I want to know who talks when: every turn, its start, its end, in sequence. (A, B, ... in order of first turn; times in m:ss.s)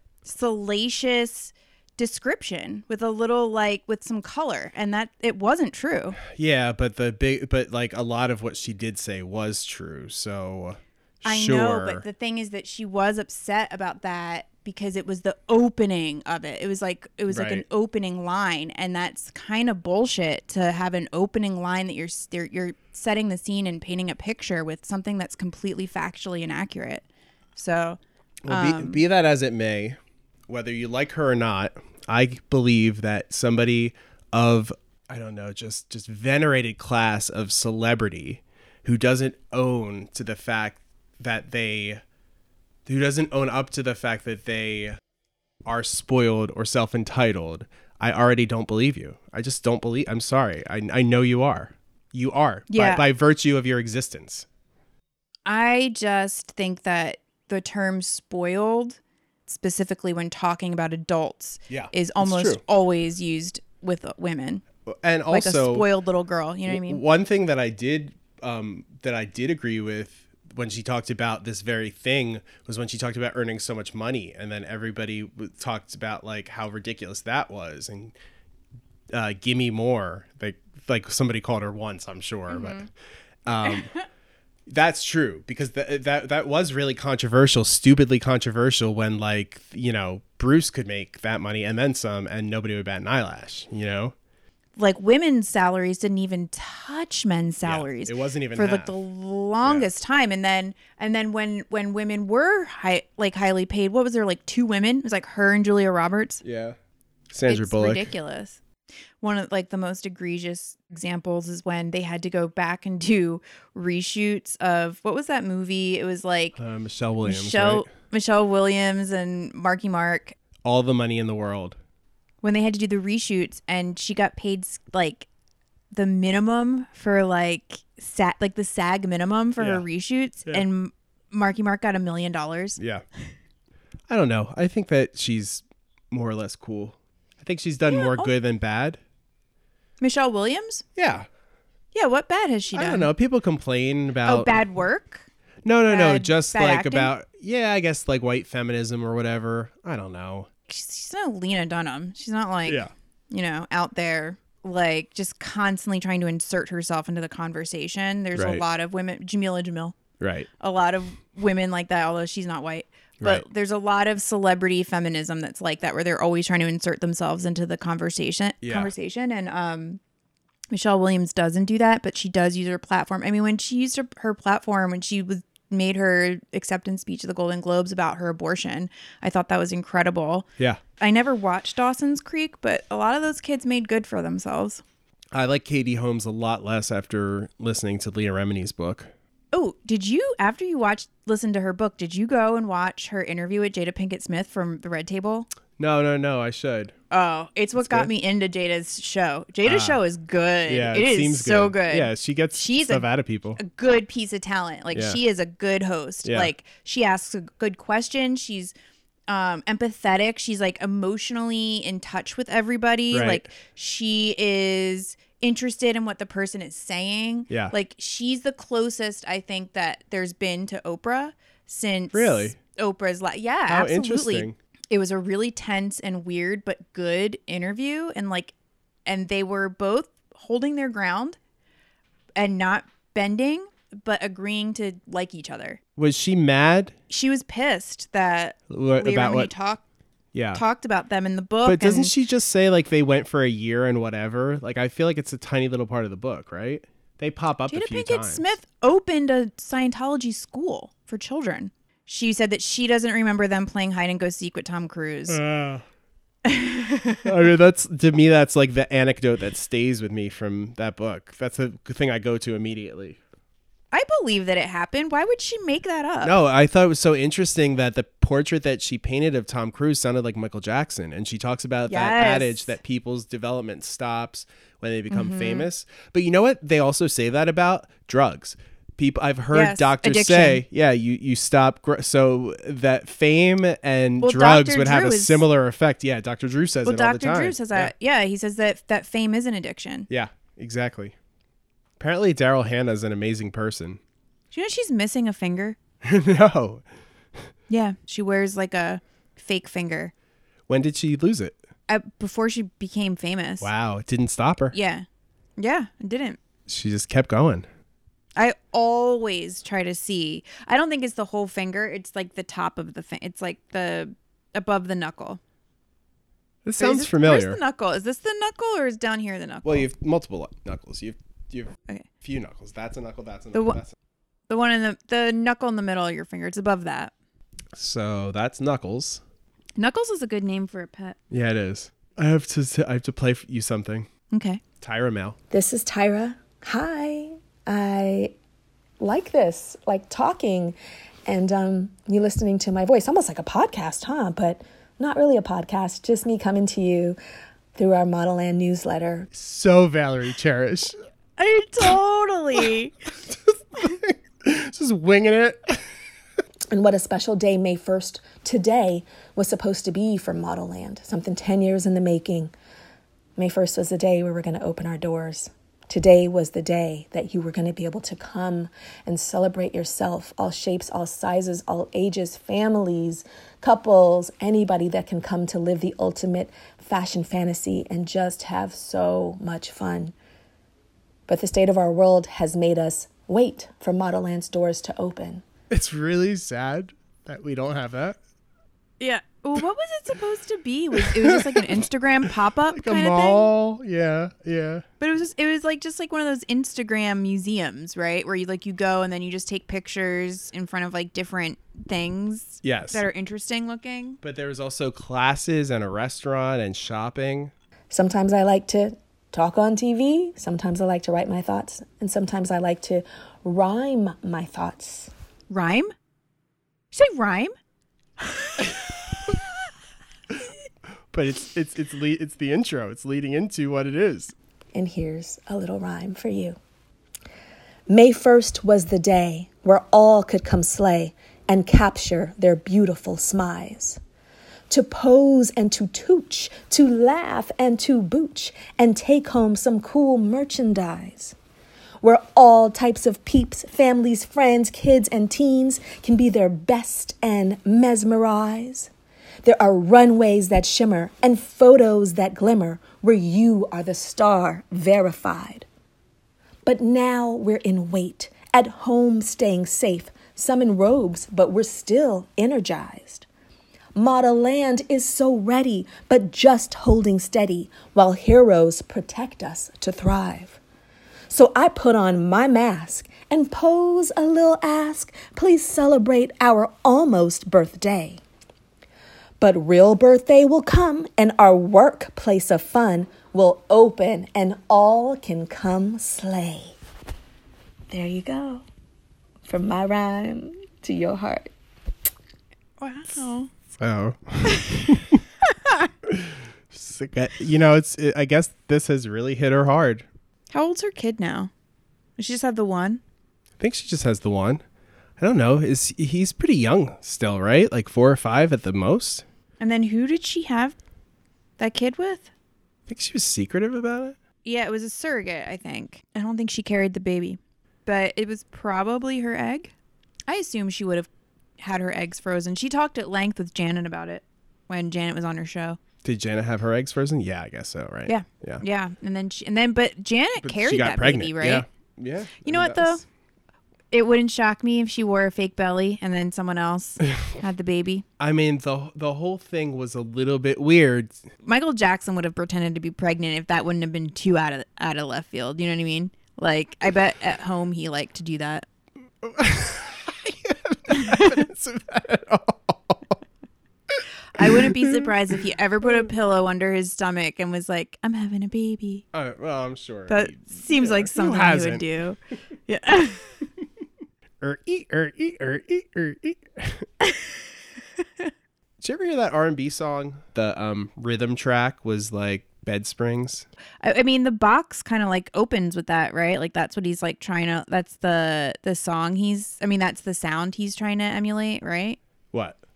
0:00.2-0:06.2 A
0:06.3-0:12.0 B
0:11.2-0:29.0 A
0:17.3-0:17.6 B
0:28.4-0:30.0 B
0:30.5-0:42.0 B
0:42.9-0:45.0 B
0:45.6-0:54.5 B
0:52.7-0:53.0 A
0:55.5-1:04.6 A
1:01.7-1:02.6 B
1:04.9-1:05.9 B
1:05.3-1:07.0 A
1:06.7-1:18.2 B
1:19.1-1:22.9 B
1:22.5-1:22.9 A
1:23.5-1:23.9 B
1:23.7-1:24.0 A
1:24.7-1:34.1 B
1:34.8-1:46.4 A
1:37.6-1:39.0 B
1:39.6-1:39.9 B
1:46.4-1:46.8 B
1:47.3-1:48.1 B
1:47.5-1:48.6 A
1:49.2-1:56.6 A
1:56.6-1:57.9 B
1:57.2-2:00.4 A
2:00.6-2:01.8 B
2:02.4-2:05.3 A
2:05.9-2:12.8 A
2:09.6-2:09.8 B
2:12.8-2:13.0 B
2:14.1-2:19.0 B
2:17.8-2:18.3 A
2:20.0-2:20.8 A
2:21.0-2:21.3 B
2:21.9-2:23.1 A
2:22.7-2:24.6 B
2:24.3-2:25.3 A
2:25.6-2:30.5 B
2:25.9-2:27.1 A
2:30.7-2:40.0 A
2:32.7-2:32.9 B
2:38.4-2:38.6 B
2:40.2-2:40.5 B
2:40.6-2:50.0 A
2:43.2-2:43.4 B
2:48.6-2:48.9 B
2:50.7-3:00.5 A
3:01.0-3:04.8 A
3:05.3-3:09.1 B
3:09.5-3:15.5 A
3:15.8-3:17.0 B
3:17.1-3:23.1 A
3:17.8-3:18.1 B
3:19.6-3:20.0 B
3:20.7-3:23.6 B
3:23.6-3:28.7 A
3:24.9-3:25.2 B
3:26.2-3:26.5 B
3:29.3-3:48.5 A
3:33.1-3:33.5 B
3:37.5-3:37.7 B
3:42.1-3:42.6 B
3:43.7-3:44.6 B
3:49.1-3:51.4 A
3:52.4-3:55.8 A
3:56.0-3:57.0 B
3:57.1-3:59.8 A
3:58.7-3:59.5 B
4:00.3-4:00.6 B
4:00.6-4:02.1 A
4:01.6-4:08.4 B
4:07.7-4:15.4 A
4:15.3-4:15.8 B
4:16.4-4:17.3 A
4:17.2-4:23.2 B
4:23.9-4:26.4 A
4:26.2-4:47.9 B
4:31.9-4:32.8 A
4:35.1-4:35.7 A
4:39.5-4:40.6 A
4:44.2-4:45.4 A
4:46.8-4:50.1 A
4:50.1-4:51.1 B
4:52.0-4:54.0 B
4:54.5-4:55.8 A
4:56.0-4:56.8 B
4:57.7-5:00.1 A
5:00.7-5:01.6 B
5:01.9-5:03.7 A
5:03.6-5:04.8 B
5:04.7-5:05.0 A
5:05.6-5:06.4 A
5:06.7-5:07.7 B
5:08.4-5:15.4 A
5:16.6-5:17.6 B
5:16.8-5:19.8 A
5:19.6-5:23.9 B
5:23.5-5:23.8 A
5:24.5-5:27.1 A
5:27.8-5:29.2 B
5:29.8-5:31.2 A
5:31.3-5:34.1 B
5:34.3-5:34.6 A
5:34.8-5:35.4 B
5:35.5-5:38.3 C
5:39.0-5:47.2 C
5:47.8-5:49.3 C
5:49.3-5:51.0 B
5:51.4-5:52.9 A
5:53.3-5:55.8 B
5:56.7-6:02.5 C
6:03.4-6:20.1 C
6:21.3-6:25.4 C
6:25.7-6:28.2 B
6:29.0-6:33.5 A
6:31.0-6:31.8 B
6:32.7-6:34.8 B
6:35.0-6:44.2 A
6:42.6-6:43.1 B
6:44.2-6:47.5 B
6:47.9-6:55.1 C
6:55.5-6:55.9 A
6:56.9-6:57.5 A
6:58.2-6:58.6 A
7:01.1-7:04.3 B
7:04.7-7:06.6 C
7:07.9-7:14.0 C
7:14.7-7:21.4 C
7:22.0-7:28.9 C
7:29.4-7:35.7 C
7:36.6-7:43.3 C
7:44.0-7:50.6 C
7:51.3-7:58.2 C
7:59.4-8:06.8 C
8:07.9-8:08.6 C
8:09.4-8:11.5 C
8:12.8-8:13.5 A
8:13.8-8:15.2 B
8:14.5-8:14.9 A
8:15.6-8:15.9 A
8:16.1-8:20.0 B
8:20.5-8:21.5 A
8:22.2-8:23.0 A
8:23.6-8:24.6 B
8:25.2-8:29.2 B
8:29.6-8:30.8 A
8:31.6-8:32.3 A
8:32.9-8:34.2 B
8:34.4-8:39.7 A
8:40.3-8:45.8 A
8:46.0-8:48.6 B
8:48.1-8:51.6 A
8:50.4-8:53.0 B
8:52.4-8:53.0 A
8:53.9-8:58.0 A
8:58.2-9:01.2 B
9:01.4-9:08.7 A
9:09.2-9:13.2 B
9:10.9-9:11.4 A
9:13.9-9:15.1 B
9:14.4-9:19.0 A
9:19.1-9:21.9 B
9:20.1-9:22.2 A
9:22.7-9:23.2 A
9:24.4-9:26.9 B
9:27.0-9:27.3 A
9:28.0-9:28.3 A
9:28.8-9:33.5 B
9:33.8-9:42.0 A